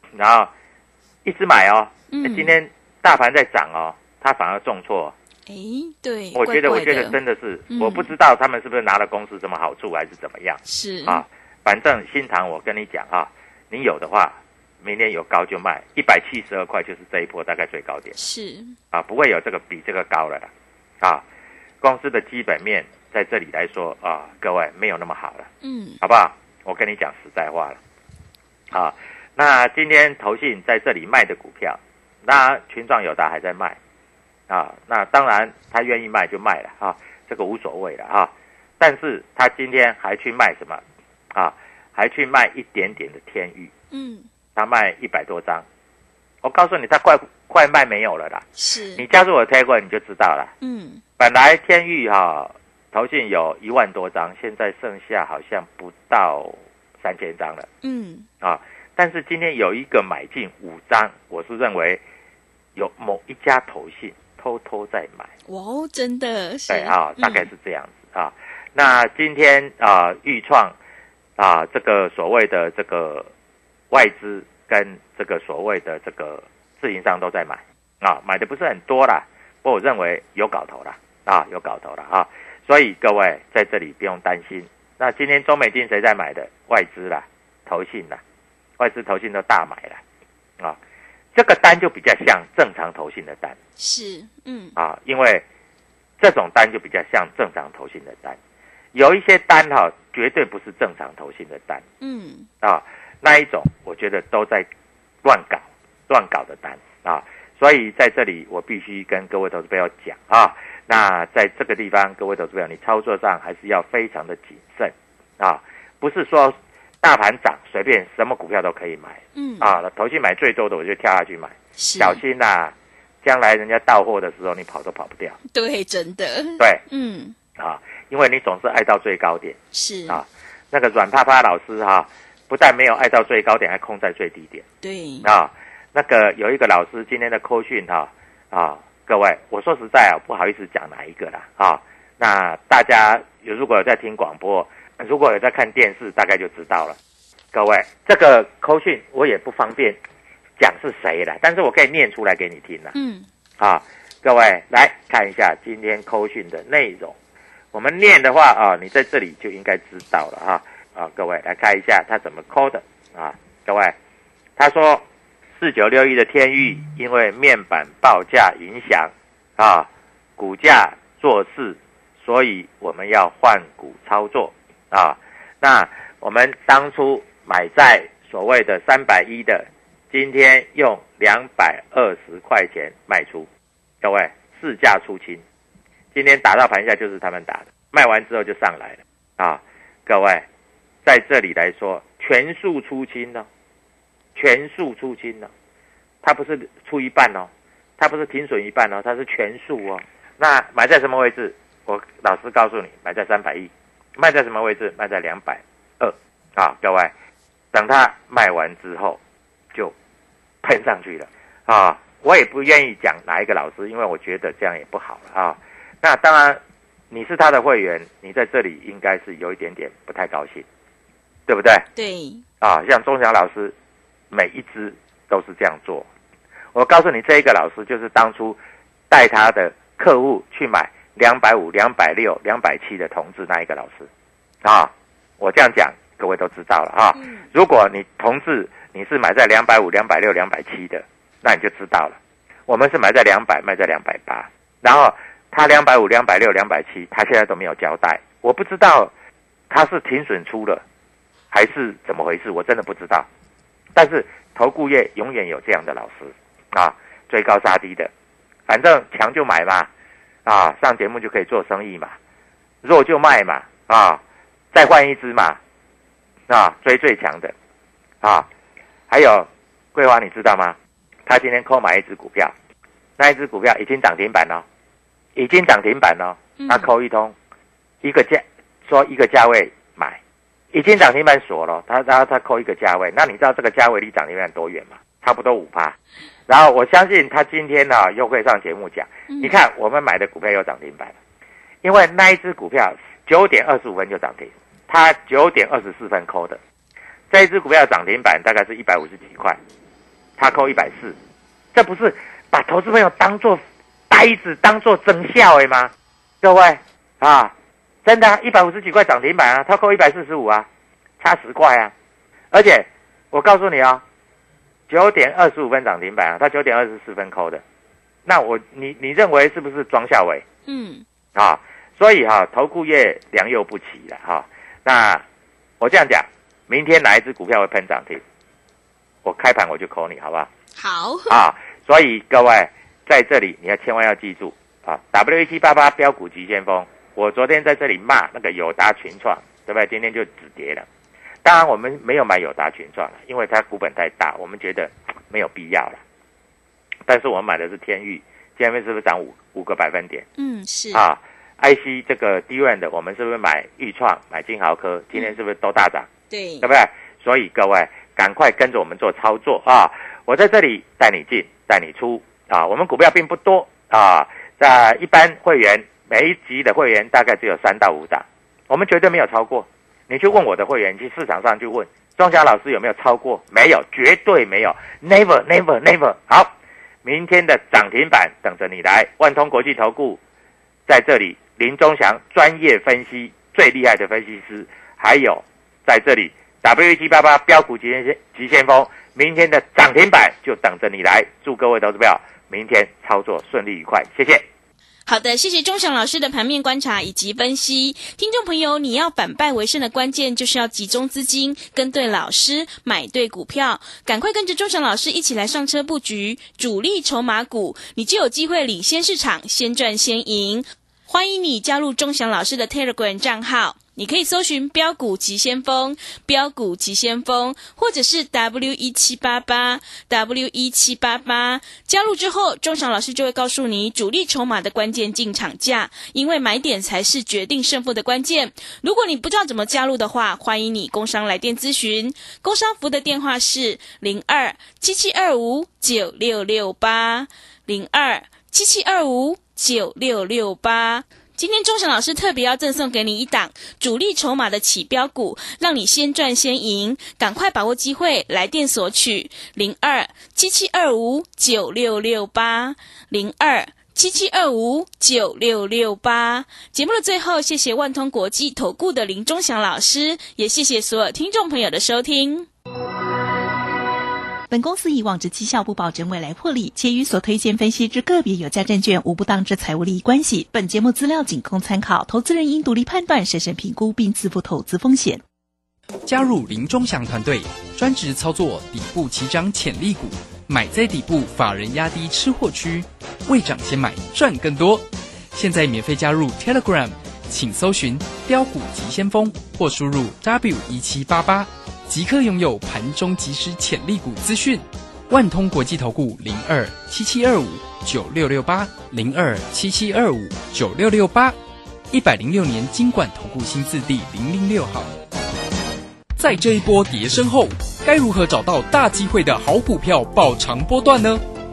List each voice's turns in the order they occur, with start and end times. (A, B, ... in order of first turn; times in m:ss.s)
0:00.2-0:00.5 A
0:01.2-0:05.1 A
0:02.1-0:02.5 B
0:05.5-0:07.2 B
0:06.4-0:18.2 A
0:07.7-0:08.1 B
0:10.7-0:11.2 B
0:18.2-0:18.8 B
0:18.9-0:20.5 A
0:21.8-0:25.5 A
0:25.6-0:26.0 B
0:26.0-0:27.8 A
0:28.7-0:33.8 A
0:34.5-0:40.8 A
0:41.3-0:43.7 A
0:43.9-0:44.3 B
0:44.6-0:45.6 A
0:46.4-0:48.4 A
0:48.6-0:49.0 B
0:49.0-0:50.5 A
0:50.6-0:51.0 B
0:51.2-0:57.7 A
0:57.8-0:58.3 B
0:58.4-1:02.0 A
1:02.8-1:05.3 A
1:05.5-1:07.5 B
1:06.7-1:10.8 A
1:11.4-1:13.3 A
1:13.9-1:28.2 A
1:28.8-1:30.0 A
1:31.4-1:33.6 A
1:33.8-1:34.8 B
1:34.8-1:35.4 A
1:36.2-1:38.4 A
1:38.9-1:41.8 A
1:42.0-1:42.5 B
1:42.6-1:44.7 A
1:45.2-2:05.4 A
1:59.4-1:59.7 B
2:01.8-2:02.2 B
2:05.5-2:07.4 B
2:07.6-2:09.6 A
2:09.7-2:10.2 B
2:10.1-2:14.6 A
2:14.8-2:15.3 B
2:15.2-2:27.0 A
2:27.5-2:30.0 A
2:30.6-2:32.9 A
2:33.0-2:33.3 B
2:33.6-2:37.1 A
2:37.7-2:44.0 A
2:44.6-2:45.0 A
2:45.6-3:03.5 A
3:04.0-3:05.4 A
3:06.1-3:10.4 A
3:11.0-3:13.5 A
3:14.4-3:15.5 A
3:16.2-3:27.1 A
3:27.7-3:29.2 A
3:30.6-3:36.6 A
3:37.1-3:40.6 A
3:41.5-3:41.9 A
3:42.0-3:42.4 B
3:42.6-3:43.7 A
3:44.3-3:46.1 A
3:46.7-3:48.6 A
3:49.1-3:54.1 A
3:54.6-4:02.2 A
3:57.2-3:57.4 B
4:02.7-4:09.1 A
4:09.7-4:10.8 A
4:11.5-4:13.3 A
4:14.0-4:18.1 A
4:18.7-4:19.9 A
4:20.4-4:22.2 A
4:22.8-4:24.2 A
4:24.7-4:25.6 A
4:26.5-4:27.5 A
4:28.2-4:28.5 A
4:29.1-4:32.5 A
4:33.2-4:34.6 A
4:35.4-4:37.4 A
4:36.6-4:36.9 B
4:38.0-4:40.2 A
4:40.7-4:46.0 A
4:46.5-4:51.2 A
4:49.3-4:49.6 B
4:51.8-4:56.6 A
4:57.3-4:59.6 A
5:00.4-5:01.2 A
5:01.7-5:07.5 A
5:08.0-5:10.7 A
5:11.2-5:11.9 A
5:12.5-5:14.0 A
5:14.9-5:17.6 A
5:18.3-5:20.4 A
5:20.7-5:21.0 B
5:21.4-5:25.2 A
5:25.8-5:28.2 A
5:29.2-5:30.5 A
5:30.8-5:31.3 B
5:31.3-5:40.9 A
5:41.4-5:46.0 A
5:47.1-5:50.3 A
5:50.4-5:51.0 B
5:50.9-5:56.1 A
5:56.3-5:56.7 B
5:56.6-6:16.5 A
6:17.0-6:20.2 A
6:20.9-6:34.4 A
6:35.1-7:42.5 B
7:44.5-7:55.2 C
7:56.1-8:21.4 D
8:21.9-8:24.9 D
8:26.2-8:31.2 D